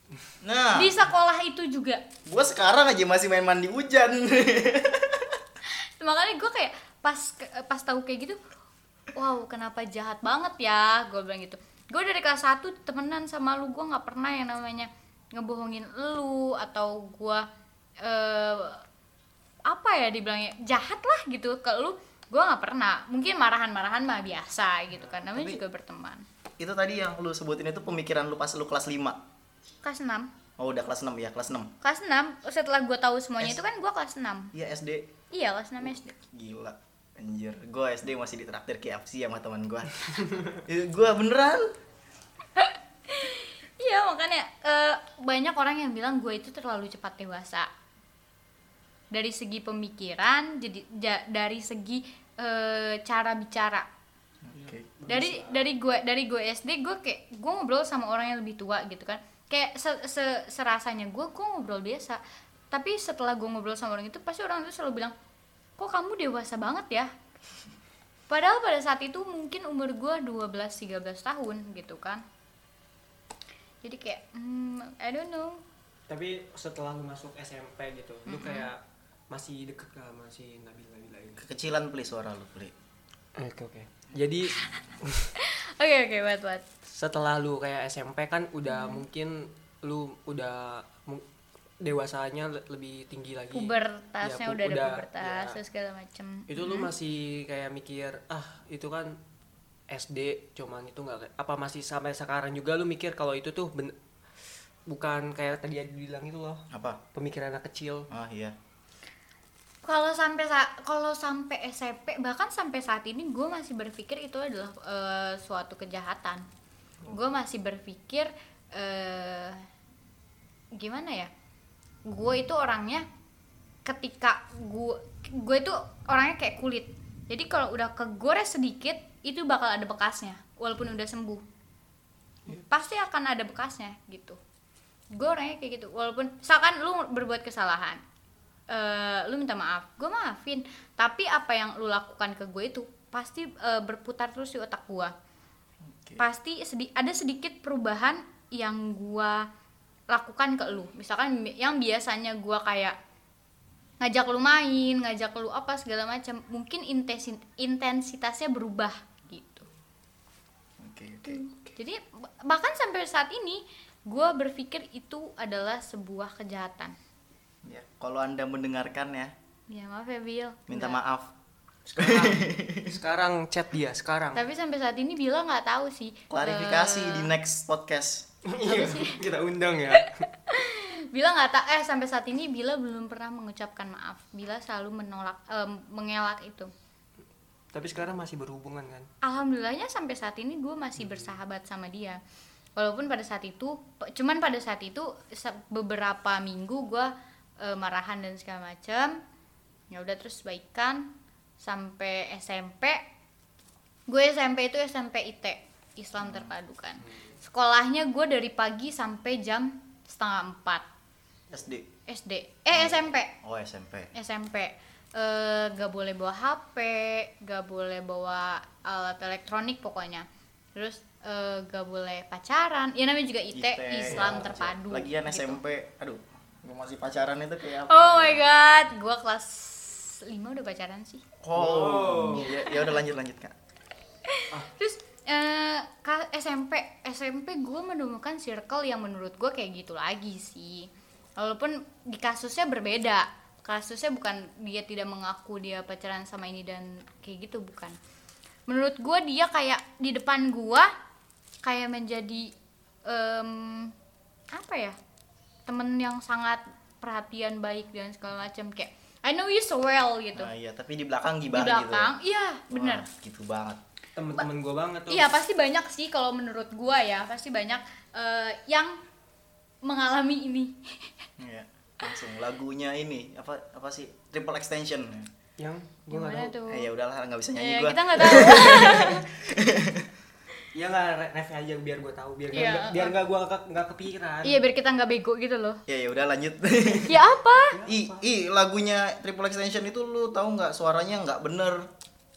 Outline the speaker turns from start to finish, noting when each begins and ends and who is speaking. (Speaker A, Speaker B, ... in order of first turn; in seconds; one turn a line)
Speaker A: 0.4-0.9
Speaker B: 0.7-2.0
Speaker A: 2.2-5.4
Speaker B: 5.7-8.4
Speaker B: 9.1-17.4
Speaker B: 18.0-18.8
Speaker B: 19.6-26.2
Speaker A: 25.3-25.6
Speaker A: 26.6-29.2
Speaker B: 29.8-30.3
Speaker A: 30.6-31.7
Speaker B: 31.8-34.5
Speaker A: 34.5-35.1
Speaker B: 35.3-36.1
Speaker A: 35.8-41.7
Speaker B: 42.5-47.7
Speaker B: 49.1-53.9
Speaker A: 54.4-54.9
Speaker C: 54.5-55.7
Speaker B: 55.1-62.2
Speaker B: 62.7-65.1
Speaker B: 65.8-67.1
Speaker B: 68.3-72.2
Speaker B: 73.8-75.6
Speaker C: 76.1-81.4
Speaker B: 78.3-78.7
Speaker A: 81.4-82.7
Speaker C: 83.3-85.3
Speaker B: 85.4-86.6
Speaker C: 86.9-91.2
Speaker B: 88.7-89.0
Speaker C: 91.8-95.6
Speaker B: 93.5-96.9
Speaker C: 96.5-99.2
Speaker C: 99.9-103.9
Speaker C: 104.9-108.1
Speaker A: 106.7-107.0
Speaker A: 108.1-108.5
Speaker B: 109.8-116.5
Speaker B: 117.1-119.7
Speaker B: 120.8-121.3
Speaker B: 122.0-123.0
Speaker B: 123.8-131.4
Speaker B: 132.5-134.4
Speaker B: 135.1-138.0
Speaker B: 138.7-145.1
Speaker A: 145.9-146.2
Speaker B: 146.2-149.5
Speaker B: 150.1-152.9
Speaker B: 154.0-159.7
Speaker A: 160.8-161.4
Speaker B: 161.2-166.9
Speaker A: 167.6-169.3
Speaker B: 169.7-171.0
Speaker A: 170.7-171.3
Speaker C: 171.8-174.4
Speaker A: 172.0-172.9
Speaker B: 174.3-177.3
Speaker A: 176.3-178.3
Speaker C: 178.4-180.3
Speaker B: 178.6-179.2
Speaker B: 179.9-186.7
Speaker C: 187.7-189.1
Speaker B: 189.2-192.2
Speaker C: 191.0-191.3
Speaker B: 192.8-199.2
Speaker B: 199.9-203.0
Speaker B: 204.1-210.8
Speaker A: 206.2-206.5
Speaker A: 211.5-211.9
Speaker B: 212.1-213.3
Speaker A: 212.7-214.1
Speaker B: 214.1-225.6
Speaker A: 223.5-228.4
Speaker C: 224.1-224.5
Speaker B: 227.9-231.2
Speaker A: 231.4-233.5
Speaker C: 231.5-232.6
Speaker B: 232.4-233.0
Speaker B: 234.2-248.0
Speaker B: 248.7-250.9
Speaker B: 251.6-252.5
Speaker B: 253.1-253.9
Speaker B: 254.5-255.0
Speaker B: 255.7-260.5
Speaker A: 260.3-262.1
Speaker B: 261.5-263.1
Speaker A: 262.7-263.8
Speaker C: 264.1-265.3
Speaker B: 265.1-269.0
Speaker B: 269.8-271.1
Speaker A: 271.4-275.3
Speaker C: 275.6-276.6
Speaker B: 276.1-276.9
Speaker A: 276.7-280.1
Speaker B: 277.5-279.2
Speaker C: 280.7-284.6
Speaker B: 282.5-283.1
Speaker B: 284.4-285.8
Speaker A: 285.9-287.1
Speaker B: 287.0-287.8
Speaker C: 287.7-288.2
Speaker A: 287.9-291.9